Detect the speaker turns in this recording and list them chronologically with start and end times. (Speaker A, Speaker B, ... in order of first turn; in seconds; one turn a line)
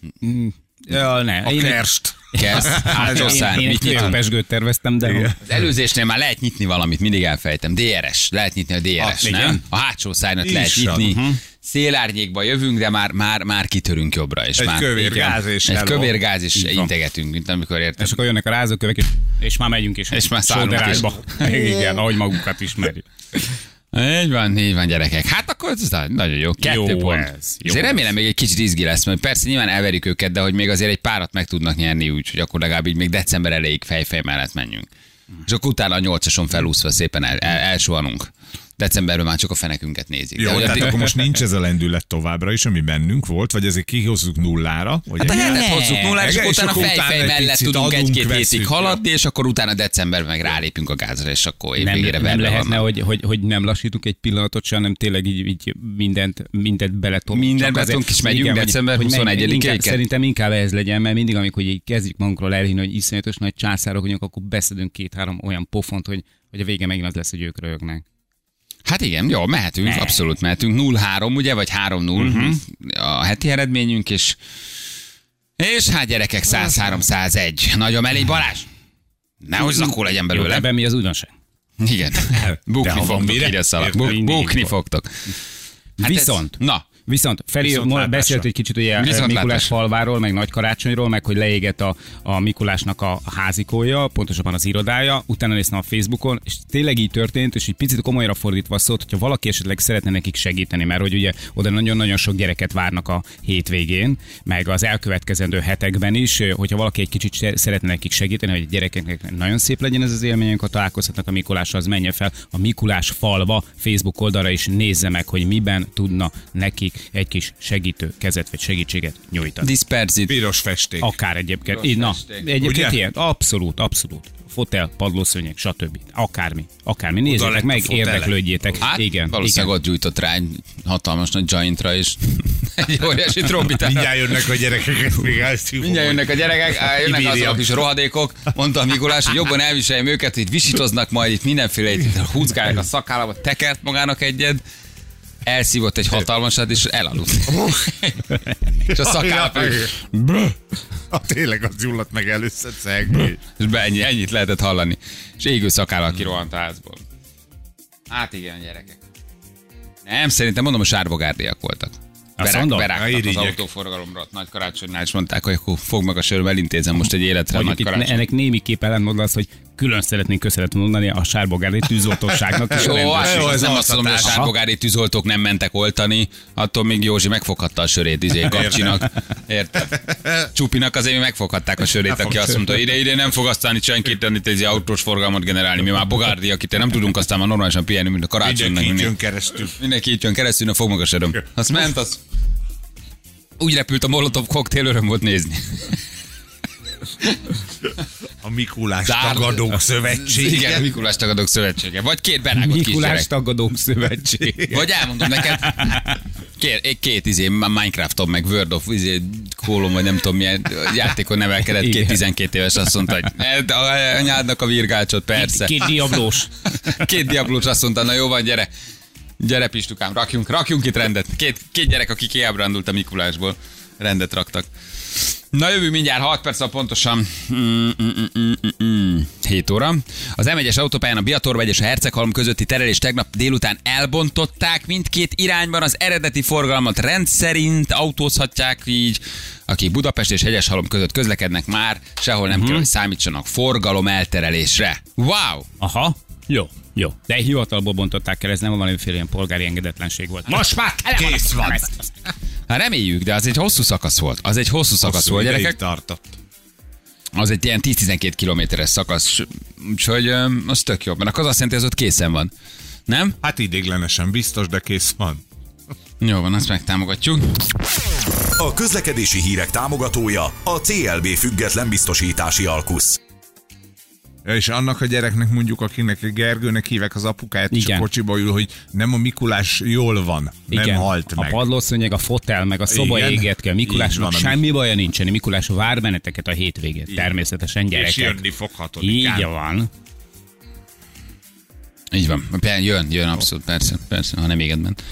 Speaker A: 0.2-5.3
Speaker B: 1.4-4.2
Speaker C: 2.4-4.2
Speaker B: 5.0-5.5
Speaker C: 5.4-18.2
Speaker B: 9.0-9.5
Speaker A: 9.2-9.6
Speaker B: 10.4-11.1
Speaker A: 11.0-11.4
Speaker B: 14.6-16.2
Speaker A: 16.6-16.9
Speaker A: 18.0-23.1
Speaker C: 20.1-21.4
Speaker B: 21.4-21.9
Speaker C: 23.9-34.9
Speaker A: 26.6-28.1
Speaker C: 35.5-41.1
Speaker B: 40.4-45.6
Speaker A: 45.2-46.2
Speaker C: 45.2-52.8
Speaker B: 46.2-49.0
Speaker A: 51.8-68.0
Speaker C: 57.3-60.0
Speaker C: 68.8-74.4
Speaker A: 69.8-70.2
Speaker A: 72.2-72.6
Speaker C: 75.6-78.7
Speaker C: 79.4-80.7
Speaker A: 80.3-81.3
Speaker C: 81.8-85.3
Speaker B: 82.8-84.3
Speaker A: 84.0-84.7
Speaker C: 86.0-86.8
Speaker A: 86.0-119.7
Speaker B: 87.6-88.5
Speaker C: 89.0-89.8
Speaker C: 119.6-120.4
Speaker B: 120.3-121.2
Speaker A: 121.0-129.7
Speaker C: 121.7-122.5
Speaker B: 122.6-123.0
Speaker B: 127.2-128.8
Speaker C: 128.8-134.3
Speaker B: 133.7-137.7
Speaker C: 135.8-144.6
Speaker C: 145.4-148.2
Speaker B: 147.5-147.9
Speaker B: 148.9-149.9
Speaker C: 148.9-150.5
Speaker B: 151.1-153.4
Speaker C: 153.6-157.0
Speaker C: 158.1-159.0
Speaker C: 160.1-168.2
Speaker A: 162.4-162.9
Speaker B: 162.9-163.6
Speaker A: 167.5-173.7
Speaker B: 172.7-174.5
Speaker C: 172.7-189.2
Speaker A: 174.2-174.5
Speaker B: 178.5-179.1
Speaker B: 182.1-182.6
Speaker B: 188.4-189.8
Speaker C: 189.8-192.2
Speaker C: 193.6-196.0
Speaker B: 198.4-201.0
Speaker C: 199.1-203.3
Speaker A: 202.6-204.8
Speaker B: 204.4-204.7
Speaker C: 204.7-216.2
Speaker A: 205.6-206.1
Speaker A: 211.7-212.2
Speaker A: 215.3-216.5
Speaker C: 216.9-218.7
Speaker C: 219.4-245.7
Speaker A: 242.5-242.9
Speaker A: 245.8-252.0
Speaker B: 250.5-251.9
Speaker C: 252.7-255.8
Speaker B: 255.0-256.4
Speaker C: 257.3-262.5
Speaker C: 263.1-263.4
Speaker B: 263.4-265.4
Speaker C: 266.2-267.7
Speaker D: 268.6-273.2
Speaker B: 274.4-281.6
Speaker A: 277.7-278.1
Speaker A: 280.7-288.4
Speaker B: 282.9-284.6
Speaker B: 287.9-289.5
Speaker A: 289.0-289.9
Speaker C: 292.1-295.0